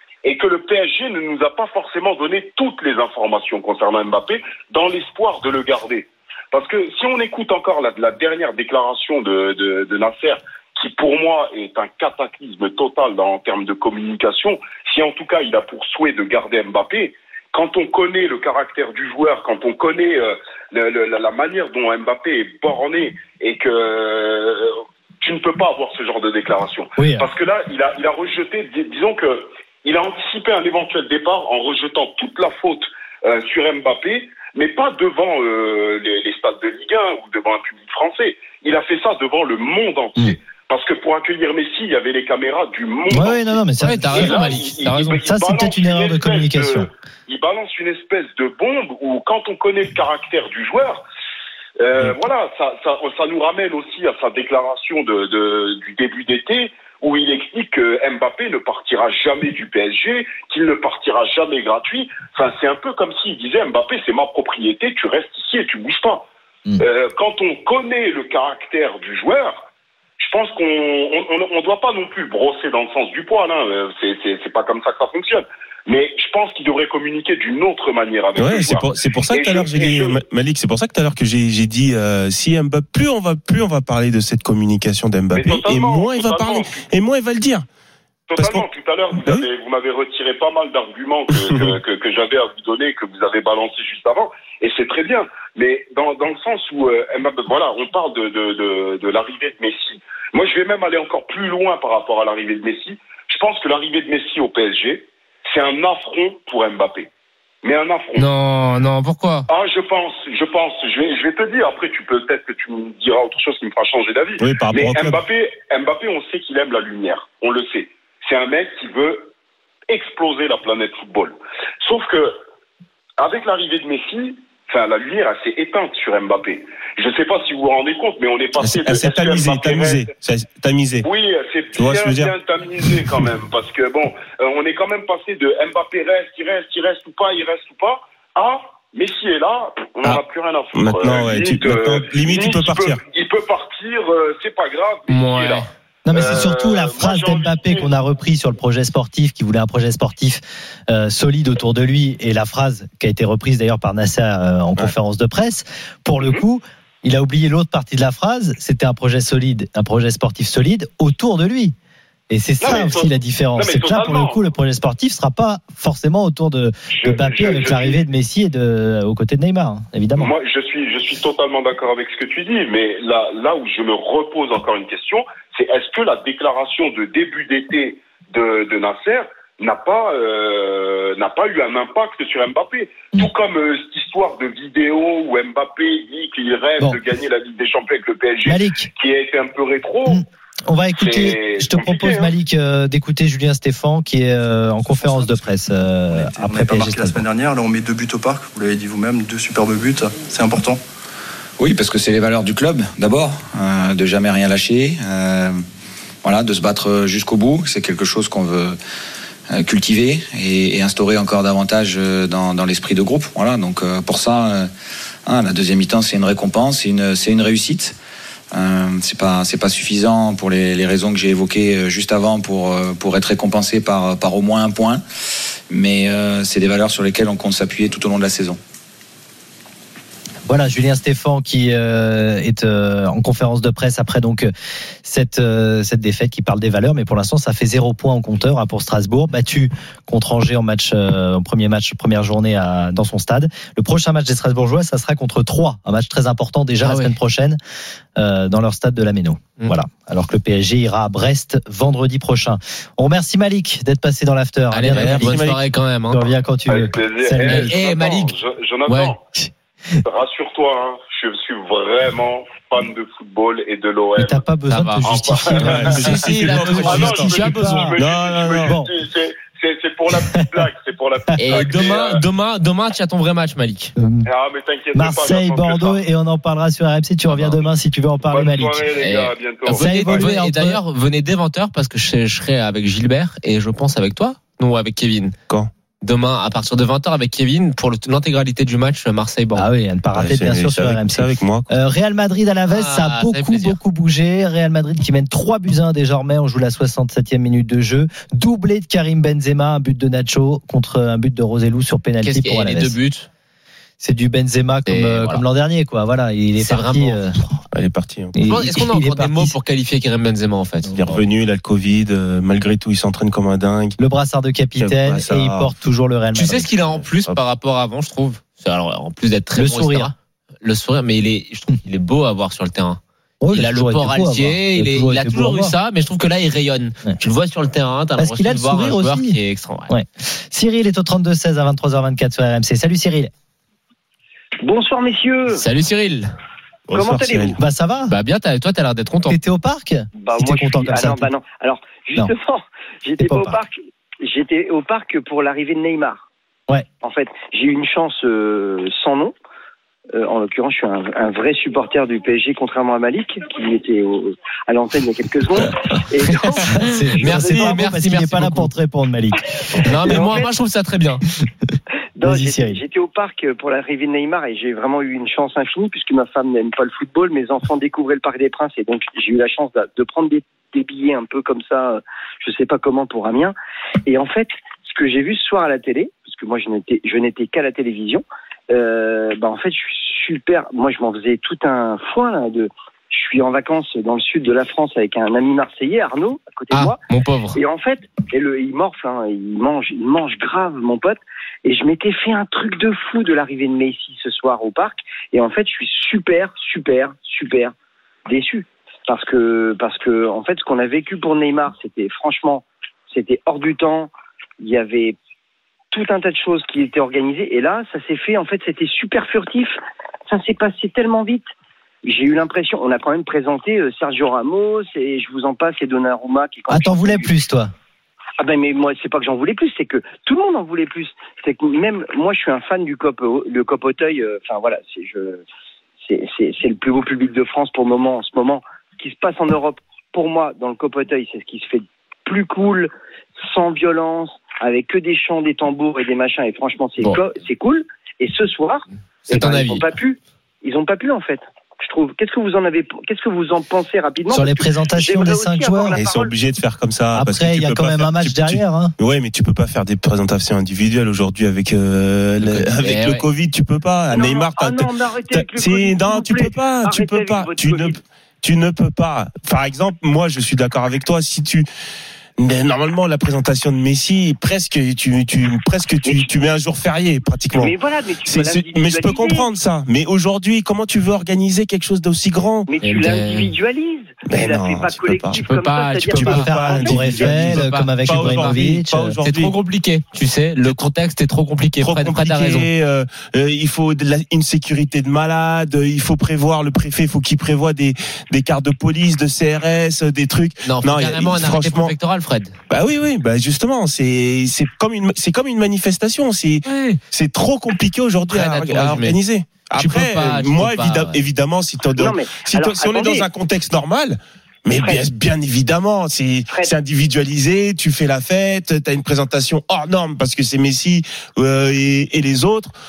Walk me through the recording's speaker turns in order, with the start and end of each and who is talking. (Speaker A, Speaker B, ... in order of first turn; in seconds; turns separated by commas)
Speaker A: 0.2-51.0, Speaker B: 27.0-27.3, Speaker B: 43.1-44.5, Speaker C: 43.8-45.2, Speaker B: 45.2-46.9, Speaker A: 51.8-66.2, Speaker A: 66.8-69.6, Speaker A: 70.2-80.2, Speaker D: 78.4-87.7, Speaker A: 85.3-86.8, Speaker A: 88.3-107.1, Speaker D: 88.4-88.6, Speaker D: 91.4-91.7, Speaker A: 107.6-108.3, Speaker C: 108.2-109.5, Speaker A: 109.5-119.3, Speaker D: 114.4-115.2, Speaker A: 119.9-122.4, Speaker A: 123.2-130.1, Speaker D: 128.6-131.1, Speaker A: 131.0-147.9, Speaker D: 131.8-133.2, Speaker D: 140.7-143.0, Speaker C: 145.1-145.7, Speaker B: 146.1-161.7, Speaker B: 162.3-170.3, Speaker A: 162.6-164.4, Speaker A: 166.9-168.0, Speaker A: 170.2-190.2, Speaker B: 188.4-188.9, Speaker B: 190.1-197.2, Speaker A: 191.0-192.3, Speaker E: 194.9-200.8, Speaker F: 201.6-205.6, Speaker F: 206.2-208.8, Speaker F: 209.5-214.7, Speaker F: 215.2-217.9, Speaker F: 218.5-225.0, Speaker F: 225.7-228.6, Speaker B: 230.5-234.5, Speaker B: 235.0-247.6, Speaker C: 246.8-247.1, Speaker B: 248.2-255.5, Speaker C: 254.7-256.3, Speaker D: 254.9-255.5, Speaker B: 256.1-257.7, Speaker A: 256.7-259.2, Speaker C: 257.4-258.3, Speaker C: 258.9-259.1, Speaker A: 260.0-264.4, Speaker B: 264.1-268.0, Speaker C: 264.7-267.9, Speaker A: 265.0-266.2, Speaker D: 265.6-267.4, Speaker A: 266.8-272.2, Speaker D: 268.0-268.7, Speaker B: 271.4-271.6, Speaker C: 271.4-273.9, Speaker B: 274.0-274.3, Speaker A: 274.2-276.0, Speaker B: 274.9-278.9, Speaker A: 278.3-280.3, Speaker C: 279.0-285.3, Speaker B: 279.7-280.8, Speaker C: 286.0-289.7, Speaker B: 289.5-303.0, Speaker D: 290.1-291.7, Speaker C: 292.7-293.8, Speaker C: 302.2-303.3, Speaker B: 304.0-307.4, Speaker C: 304.9-305.4, Speaker C: 306.6-307.6, Speaker D: 307.7-308.3, Speaker B: 308.3-309.5, Speaker C: 308.4-311.2, Speaker D: 310.9-314.0, Speaker B: 314.0-316.7, Speaker D: 314.8-315.7, Speaker C: 316.3-323.0, Speaker D: 316.8-317.4, Speaker B: 319.5-320.1, Speaker B: 323.4-325.7, Speaker C: 323.5-329.9, Speaker B: 328.2-333.3, Speaker G: 334.6-335.6, Speaker C: 335.5-336.3, Speaker D: 336.9-337.6, Speaker G: 336.9-337.6, Speaker B: 337.6-338.1, Speaker C: 338.1-339.4, Speaker B: 339.3-341.3, Speaker G: 340.1-346.2, Speaker B: 343.2-343.6, Speaker G: 347.0-349.3, Speaker G: 350.1-357.8, Speaker C: 356.6-358.7, Speaker B: 356.7-360.3, Speaker C: 359.8-361.2, Speaker G: 360.0-360.5, Speaker G: 362.2-373.5, Speaker B: 362.2-362.8, Speaker G: 374.1-387.0, Speaker C: 386.7-387.6, Speaker G: 387.5-397.7, Speaker G: 398.3-405.2, Speaker G: 405.9-409.8, Speaker G: 410.3-411.5, Speaker G: 412.0-417.3, Speaker B: 416.7-417.7, Speaker G: 418.4-425.4, Speaker G: 426.0-432.9, Speaker G: 433.4-446.3, Speaker C: 439.3-439.9, Speaker B: 444.3-446.0, Speaker D: 445.9-461.7, Speaker B: 447.1-448.9, Speaker C: 452.4-453.2, Speaker G: 454.1-458.0, Speaker D: 462.4-472.7, Speaker G: 467.5-469.5, Speaker G: 472.7-477.3, Speaker C: 472.8-473.5, Speaker D: 474.3-475.4, Speaker C: 475.3-478.6, Speaker D: 476.1-479.5, Speaker B: 476.2-479.2, Speaker C: 479.2-482.7, Speaker D: 481.8-491.9, Speaker C: 490.6-492.5, Speaker D: 492.7-512.7, Speaker C: 496.6-497.0, Speaker C: 498.3-499.2, Speaker C: 499.8-501.2, Speaker G: 501.9-503.3, Speaker G: 504.7-505.1, Speaker G: 506.5-506.8